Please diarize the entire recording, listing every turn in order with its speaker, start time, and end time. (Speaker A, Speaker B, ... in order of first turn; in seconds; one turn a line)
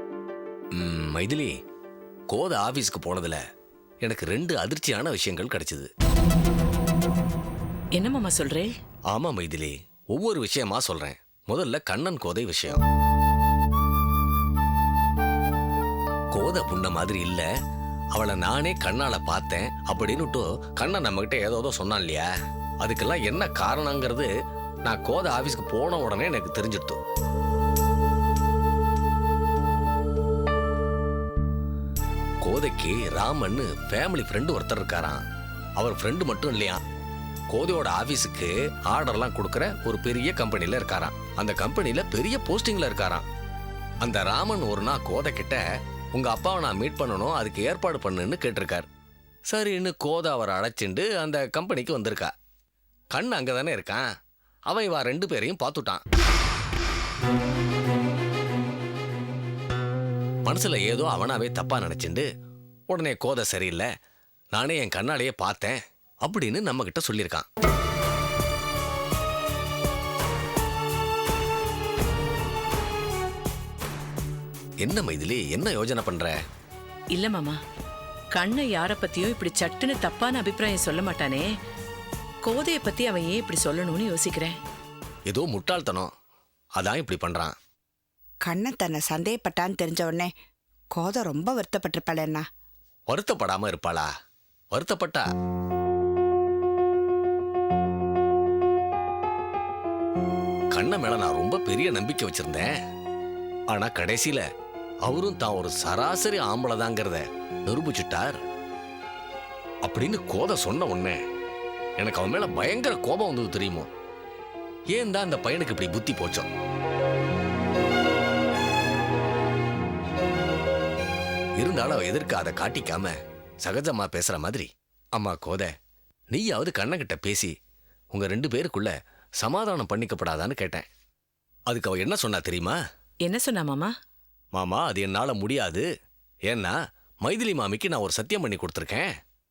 Speaker A: 0.8-1.5
Speaker A: 2.3-3.4
Speaker A: 4.0-5.9
Speaker B: 8.0-8.7
Speaker A: 9.1-12.8
Speaker A: 16.3-17.4
Speaker A: 18.1-22.3
Speaker A: 22.8-24.3
Speaker A: 24.9-27.0
Speaker A: 32.4-35.2
Speaker A: 35.8-36.8
Speaker A: 37.5-43.2
Speaker A: 44.0-45.6
Speaker A: 46.1-48.9
Speaker A: 49.5-52.3
Speaker A: 53.1-54.0
Speaker A: 54.7-56.0
Speaker A: 60.5-62.3
Speaker A: 62.9-63.9
Speaker A: 64.5-67.5
Speaker A: 74.8-76.3
Speaker B: 77.1-77.6
Speaker B: 78.4-81.5
Speaker B: 82.5-84.6
Speaker A: 85.3-86.1
Speaker A: 86.8-87.5
Speaker C: 88.5-90.3
Speaker C: 91.0-92.4
Speaker A: 93.1-94.1
Speaker A: 94.7-95.3
Speaker A: 100.7-102.7
Speaker A: 103.7-104.4
Speaker A: 105.1-108.4
Speaker A: 109.9-111.2
Speaker A: 112.0-113.9
Speaker A: 114.9-116.5
Speaker A: 121.6-125.7
Speaker A: 126.3-127.5
Speaker A: 128.1-130.8
Speaker A: 131.7-132.8
Speaker B: 133.3-133.9
Speaker A: 134.6-135.8
Speaker A: 136.5-139.1